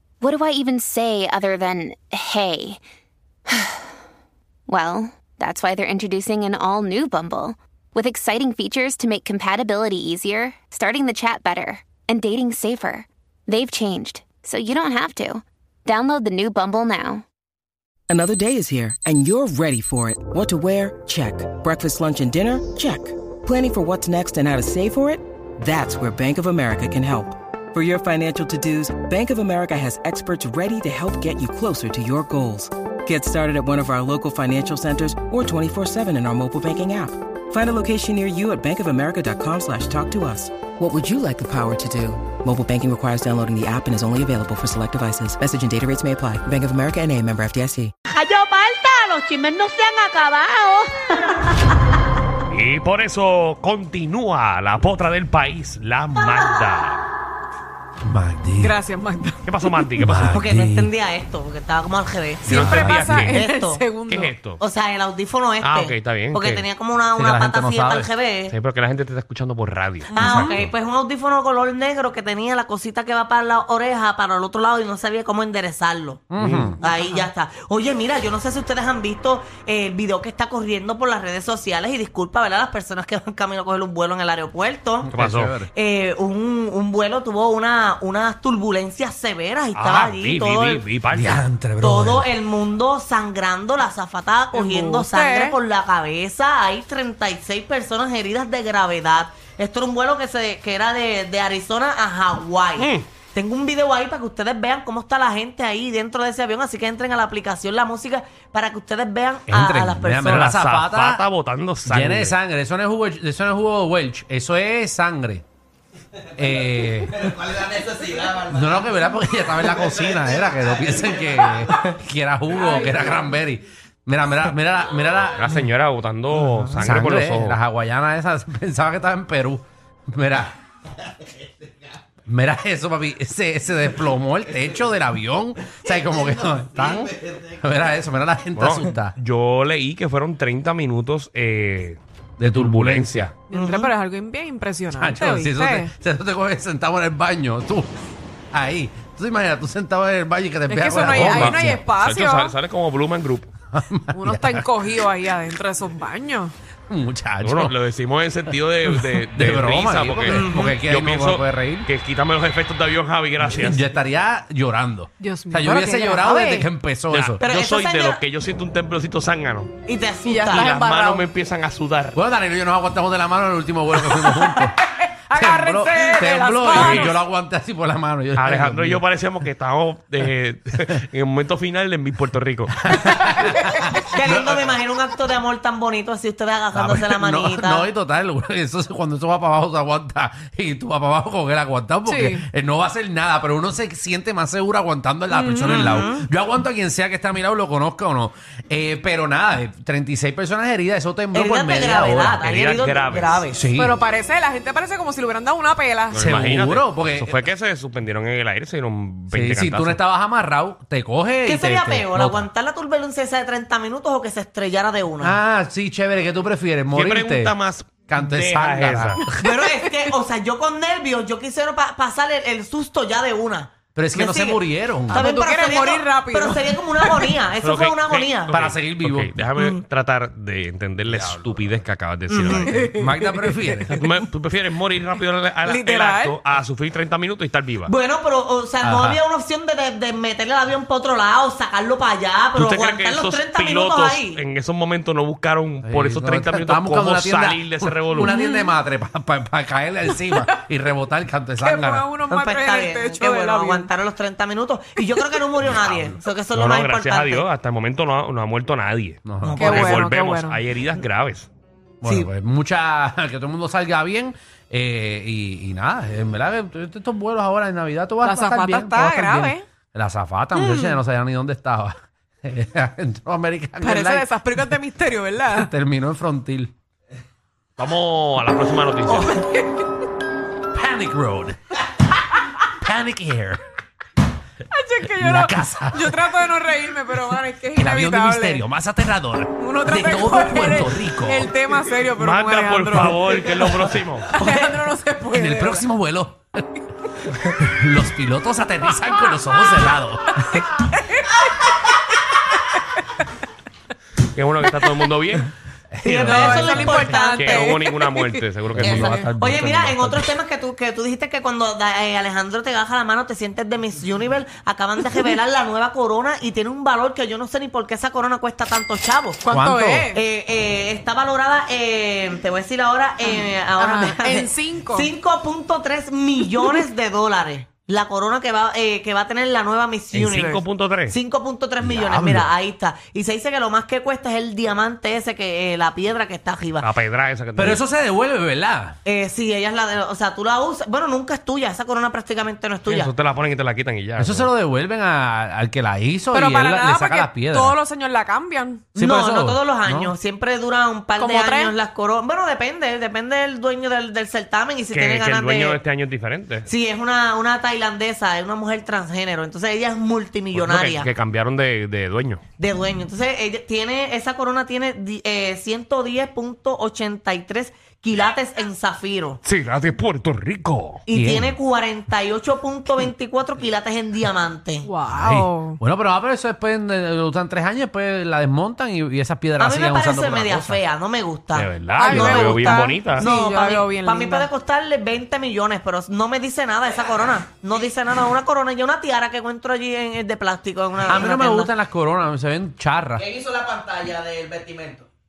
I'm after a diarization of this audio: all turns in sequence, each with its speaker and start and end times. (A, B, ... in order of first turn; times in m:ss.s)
0:00.2-0:02.8 A
0:03.5-0:03.9 A
0:04.7-0:17.2 A
0:18.1-0:47.9 B
0:48.1-0:51.4 C
0:52.5-0:57.1 D
0:58.0-0:58.8 E
0:58.6-0:59.9 F
0:59.4-1:00.3 D
1:00.0-1:00.9 E
1:00.2-1:03.8 C
1:02.5-1:03.4 D
1:02.5-1:04.4 F
1:04.1-1:04.6 D
1:04.6-1:08.6 C
1:05.6-1:06.6 D
1:07.2-1:08.1 E
1:08.5-1:10.7 D
1:10.1-1:10.6 F
1:10.2-1:16.2 C
1:10.2-1:10.5 E
1:16.3-1:16.8 E
1:16.4-1:16.7 D
1:16.8-1:25.1 C
1:16.8-1:17.3 F
1:25.0-1:25.7 E
1:25.1-1:25.5 D
1:25.7-1:30.8 C
1:29.7-1:31.4 D
1:31.1-1:32.3 E
1:31.8-1:50.5 C
1:34.5-1:35.6 F
1:42.8-1:43.1 D
1:49.5-1:51.2 E
1:50.2-1:52.4 D
1:51.8-1:55.4 E
1:56.4-1:57.2 E
1:57.2-1:58.8 G
1:58.4-2:05.6 E
2:00.0-2:00.4 G
2:02.7-2:02.9 F
2:05.4-2:07.6 D
2:06.6-2:10.5 E
2:12.3-2:19.1 E
2:18.6-2:22.0 D
2:22.4-2:23.3 E
2:22.5-2:23.3 D
2:23.5-2:25.9 F
2:23.5-2:23.9 C
2:25.0-2:27.9 E
2:28.5-2:31.8 E
2:30.7-2:32.6 F
2:31.1-2:33.5 D
2:33.7-2:34.7 E
2:34.1-2:36.5 F
2:36.9-2:37.8 E
2:37.4-2:43.8 D
2:38.8-2:41.9 E
2:40.3-2:40.8 C
2:43.4-2:47.4 E
2:45.2-2:46.7 F
2:47.1-2:49.7 D
2:47.4-2:48.2 C
2:49.8-2:50.7 C
2:50.2-2:51.3 F
2:50.5-2:52.2 D
2:52.2-2:54.8 E
2:54.0-2:57.2 F
2:55.4-2:59.0 E
2:56.6-2:57.2 D
2:58.4-3:03.0 D
3:02.8-3:04.6 E
3:04.0-3:07.9 C
3:06.7-3:22.4 E
3:12.1-3:12.4 F
3:15.3-3:16.2 F
3:15.7-3:16.2 C
3:21.3-3:23.6 C
3:22.4-3:23.4 D
3:23.5-3:24.0 E
3:23.8-3:26.2 F
3:26.1-3:30.0 D
3:26.2-3:27.4 E
3:29.3-3:32.5 E
3:31.4-3:35.4 C
3:35.2-3:37.6 E
3:36.9-3:39.2 D
3:38.1-3:39.4 E
3:39.4-3:48.6 C
3:44.0-3:45.3 E
3:45.1-3:47.4 F
3:47.6-3:53.0 D
3:48.5-3:49.4 E
3:49.6-3:49.8 C
3:51.1-3:51.8 E
3:52.3-3:52.7 C
3:52.5-3:54.0 E
3:52.8-3:53.8 F
3:53.9-3:57.9 D
3:55.6-3:56.4 F
3:57.8-4:04.4 C
3:58.8-3:59.2 E
4:02.6-4:08.3 D
4:05.8-4:12.1 E
4:08.2-4:08.7 F
4:11.6-4:13.9 F
4:12.3-4:17.5 C
4:15.7-4:16.2 E
4:16.5-4:21.5 D
4:19.2-4:19.8 E
4:19.4-4:19.9 C
4:19.6-4:20.6 F
4:22.0-4:34.5 E
4:22.0-4:22.3 C
4:28.2-4:29.6 F
4:30.6-4:31.0 F
4:33.8-4:35.7 F
4:35.5-4:36.7 E
4:37.8-4:39.4 D
4:39.1-4:39.9 F
4:40.7-4:41.6 E
4:42.6-4:43.6 E
4:44.7-4:48.6 F
4:45.2-4:46.2 E
4:47.8-4:51.6 E
4:49.6-4:55.9 F
4:52.2-4:54.3 D
4:54.4-4:54.7 E
4:55.3-4:56.7 E
4:57.6-5:00.6 E
5:01.0-5:02.4 F
5:04.3-5:05.5 D
5:04.8-5:05.1 F
5:05.9-5:07.0 E
5:06.0-5:07.8 C
5:06.0-5:09.2 D
5:06.2-5:08.4 F
5:08.7-5:10.3 E
5:08.8-5:19.4 C
5:09.0-5:09.3 F
5:19.4-5:20.2 F
5:19.5-5:20.1 E
5:20.1-5:36.9 C
5:23.4-5:25.1 F
5:30.1-5:31.2 D
5:31.8-5:32.5 E
5:36.8-5:37.8 D
5:37.6-5:39.0 E
5:39.0-5:43.1 C
5:42.9-5:44.5 D
5:44.2-5:47.8 E
5:46.3-5:48.9 F
5:49.0-5:50.1 E
5:49.0-5:55.8 C
5:51.2-5:51.8 F
5:54.9-5:56.7 D
5:56.7-6:01.1 C
6:00.5-6:02.4 D
6:02.6-6:09.4 C
6:09.4-6:11.0 D
6:11.1-6:14.9 C
6:11.1-6:11.6 E
6:14.8-6:15.8 F
6:15.1-6:20.8 E
6:19.6-6:31.7 C
6:21.6-6:23.2 D
6:22.0-6:24.5 F
6:31.0-6:33.3 E
6:33.2-6:35.1 G